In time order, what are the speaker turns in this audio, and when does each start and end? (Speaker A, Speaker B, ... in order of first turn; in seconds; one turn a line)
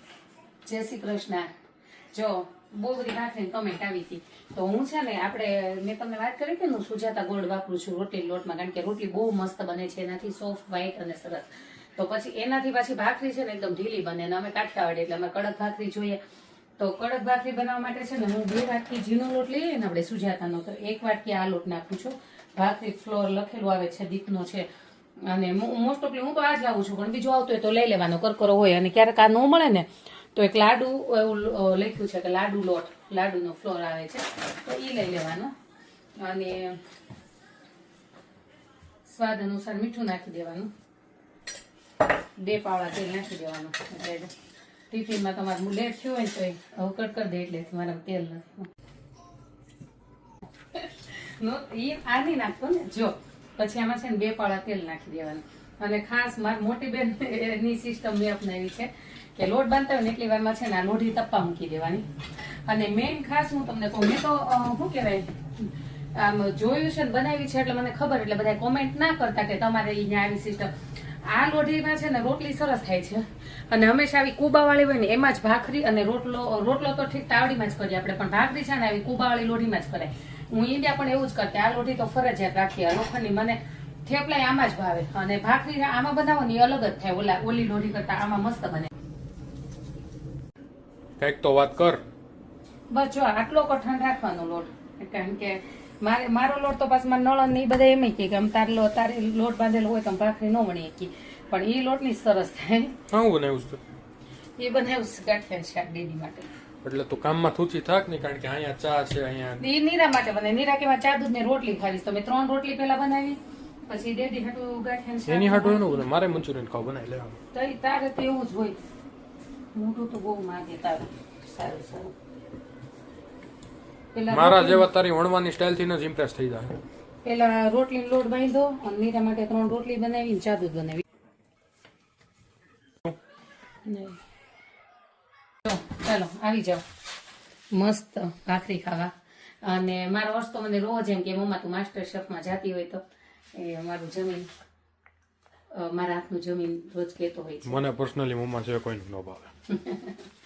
Speaker A: 0.7-1.5
Speaker A: 2.1-16.2
Speaker A: 16.8-24.7
Speaker A: 25.2-35.5
Speaker A: 36.2-36.8
Speaker A: 39.1-40.7
Speaker A: 42.4-44.3
Speaker A: 44.9-48.7
Speaker A: 50.7-70.7
Speaker A: 71.2-88.9
Speaker B: 91.2-92.0
Speaker A: 92.9-103.0
Speaker B: 103.1-103.8
Speaker A: 104.6-106.5
Speaker B: 106.8-109.6
Speaker A: 109.6-116.1
Speaker B: 115.3-117.4
Speaker A: 117.5-118.8
Speaker A: 119.8-122.2
Speaker A: 124.1-124.9
Speaker B: 124.3-126.8
Speaker A: 127.2-131.0
Speaker A: 133.9-134.2
Speaker A: 135.7-136.8
Speaker A: 137.7-139.1
Speaker A: 139.6-143.0
Speaker A: 143.5-144.5
Speaker A: 145.7-147.8
Speaker B: 147.7-149.5
Speaker A: 149.7-150.3